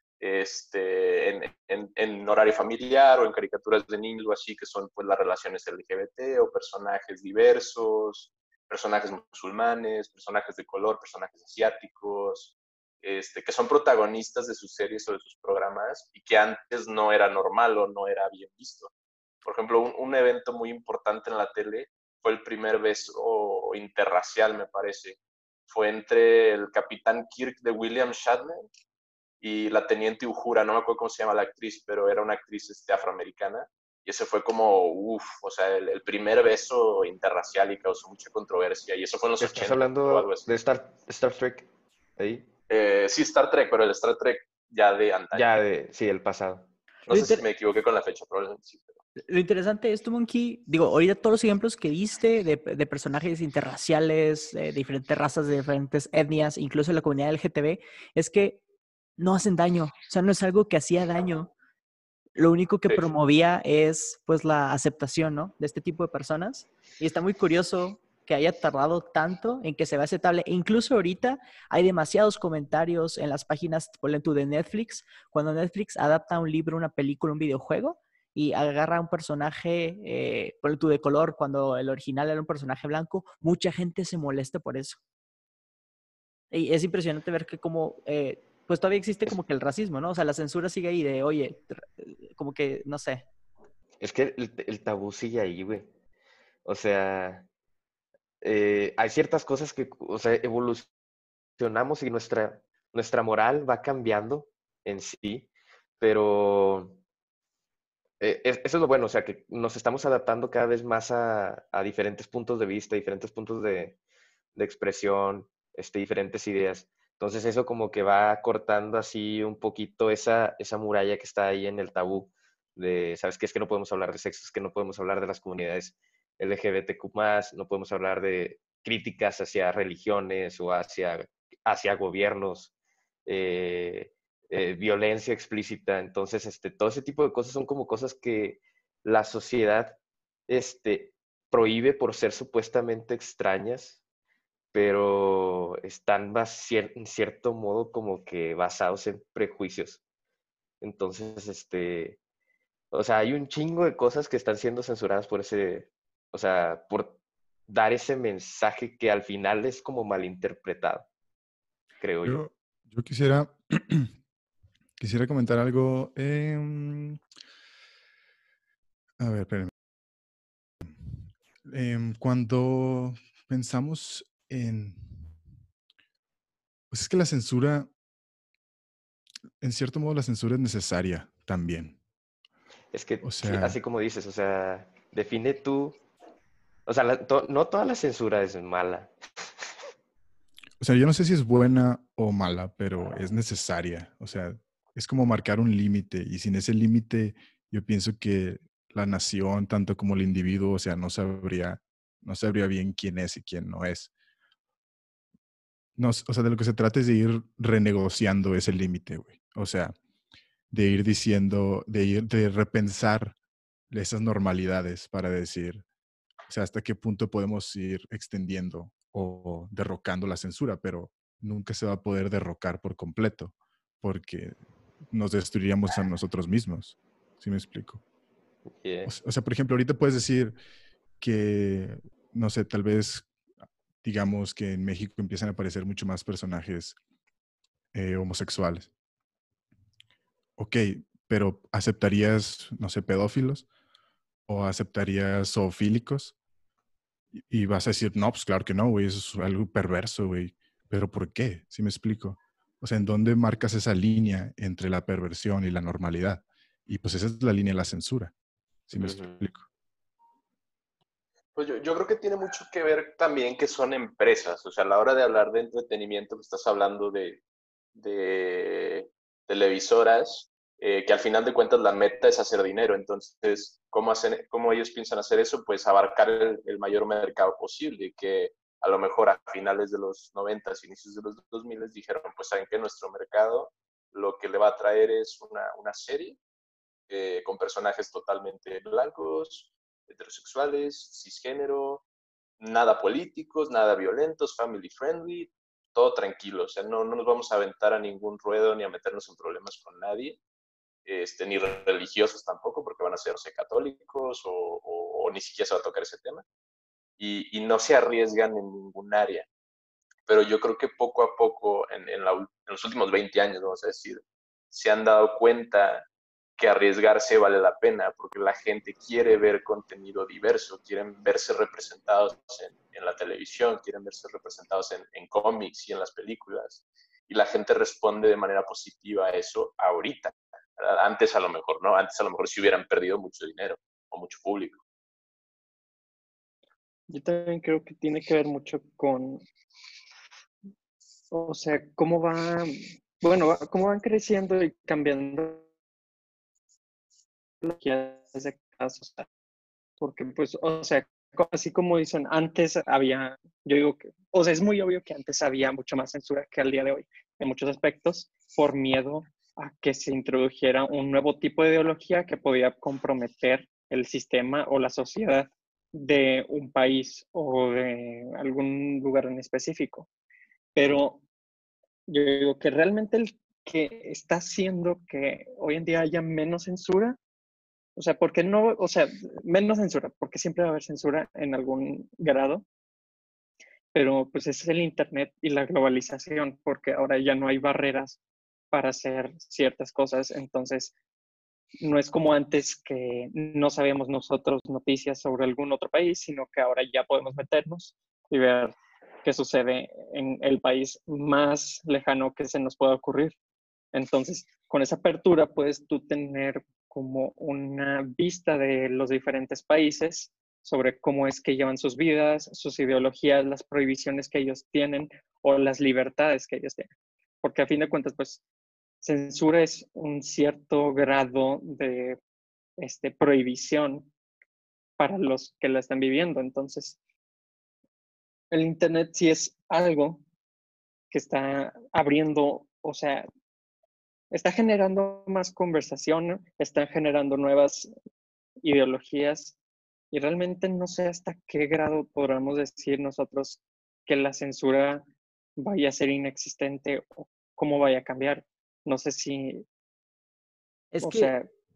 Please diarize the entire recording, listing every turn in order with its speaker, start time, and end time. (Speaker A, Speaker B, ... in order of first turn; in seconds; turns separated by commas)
Speaker A: 0.2-18.9, Speaker A: 19.4-28.6, Speaker A: 29.4-40.5, Speaker B: 39.4-42.5, Speaker A: 42.7-45.5, Speaker B: 45.3-46.7, Speaker C: 47.1-47.5, Speaker A: 47.1-49.0, Speaker C: 49.3-58.6, Speaker C: 59.2-61.5, Speaker C: 62.4-85.0, Speaker C: 86.5-93.2, Speaker B: 94.0-95.9, Speaker B: 96.6-97.5, Speaker B: 98.4-100.9, Speaker B: 101.6-107.0, Speaker B: 108.2-114.0, Speaker B: 114.5-132.7, Speaker B: 133.2-140.0, Speaker B: 140.5-144.0, Speaker B: 144.7-150.0, Speaker B: 150.8-152.2, Speaker B: 152.9-157.2, Speaker B: 157.7-161.1, Speaker B: 162.0-162.4, Speaker D: 162.2-164.1, Speaker D: 165.0-167.2, Speaker D: 169.2-169.7, Speaker D: 171.7-175.3, Speaker D: 176.9-177.9, Speaker D: 179.6-182.0, Speaker B: 182.9-186.0, Speaker D: 183.2-183.8, Speaker B: 186.9-189.1, Speaker D: 190.8-204.1, Speaker D: 206.0-209.9, Speaker D: 210.7-213.3, Speaker D: 213.9-215.8, Speaker D: 216.5-224.6, Speaker D: 225.1-228.0, Speaker B: 228.8-229.1, Speaker D: 229.0-230.6, Speaker D: 231.2-233.3, Speaker D: 234.0-237.0, Speaker D: 237.9-238.9, Speaker D: 240.6-243.7, Speaker D: 244.5-246.3, Speaker D: 247.4-258.3, Speaker D: 258.9-259.6, Speaker B: 258.9-259.4, Speaker A: 261.5-267.4, Speaker A: 267.9-286.4, Speaker A: 287.1-292.0, Speaker A: 292.6-300.4, Speaker A: 301.1-306.4, Speaker A: 307.2-309.5, Speaker A: 310.3-316.0, Speaker A: 316.6-334.8, Speaker E: 337.1-339.4, Speaker E: 341.3-345.6, Speaker E: 347.6-349.2, Speaker E: 350.0-370.1, Speaker E: 370.7-371.2, Speaker E: 372.1-377.2, Speaker E: 377.9-382.6, Speaker E: 383.9-388.2, Speaker E: 388.7-390.9, Speaker E: 391.8-403.3, Speaker E: 403.9-416.9, Speaker E: 417.4-418.4, Speaker E: 419.0-422.2, Speaker E: 422.8-424.1, Speaker E: 425.0-427.0, Speaker E: 428.5-430.2, Speaker E: 431.1-433.3, Speaker E: 434.3-437.9, Speaker E: 438.6-439.6, Speaker E: 440.1-445.0, Speaker E: 445.6-449.6, Speaker C: 450.9-451.3, Speaker E: 451.0-451.5